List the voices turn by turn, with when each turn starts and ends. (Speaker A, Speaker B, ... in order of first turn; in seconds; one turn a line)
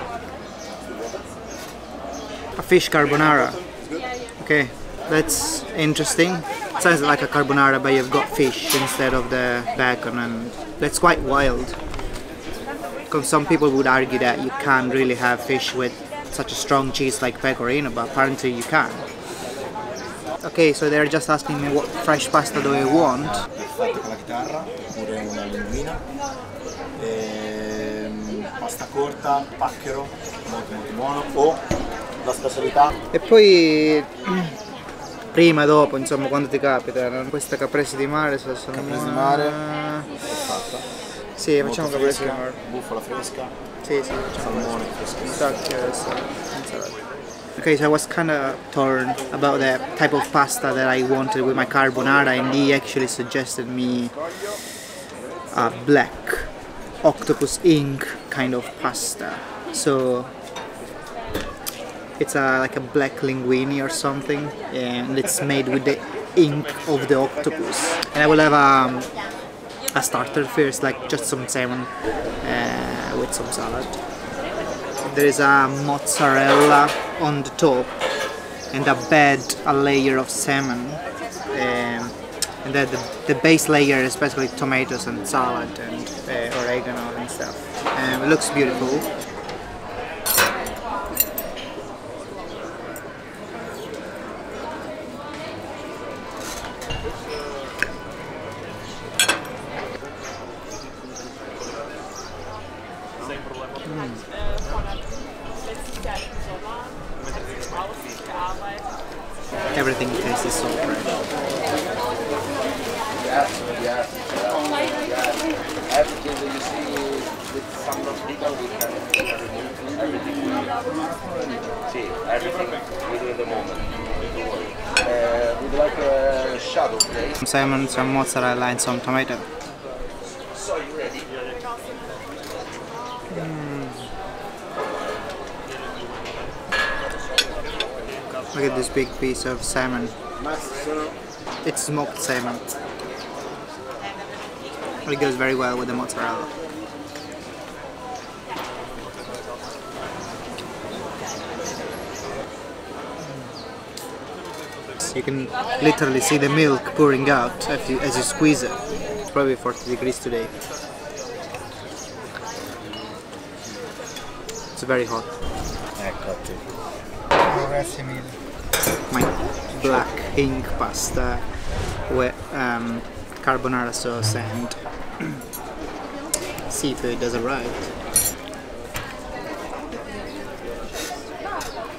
Speaker A: 2.6-11.8
Speaker A: 13.1-19.1
Speaker A: 20.4-23.5
Speaker B: 23.5-26.1
Speaker B: 26.9-31.6
Speaker B: 32.2-32.9
Speaker A: 33.1-34.6
Speaker A: 35.3-40.1
Speaker B: 38.9-39.6
Speaker B: 40.3-40.9
Speaker A: 41.4-42.6
Speaker B: 41.8-43.5
Speaker A: 43.8-47.0
Speaker B: 44.6-45.3
Speaker A: 47.5-54.7
Speaker A: 55.5-60.3
Speaker A: 62.2-69.3
Speaker A: 69.9-74.0
Speaker A: 75.0-77.9
Speaker A: 78.7-89.1
Speaker A: 103.8-104.2
Speaker A: 109.7-111.2
Speaker C: 116.4-116.6
Speaker C: 119.8-120.1
Speaker C: 123.2-123.6
Speaker C: 125.1-127.0
Speaker A: 127.4-129.5
Speaker A: 133.3-134.1
Speaker A: 138.5-140.1
Speaker A: 141.6-142.7
Speaker A: 145.0-146.5
Speaker A: 155.0-160.5
Speaker A: 164.8-165.3
Speaker B: 165.9-166.6
Speaker A: 167.4-168.4
Speaker A: 169.1-175.4
Speaker A: 176.7-177.9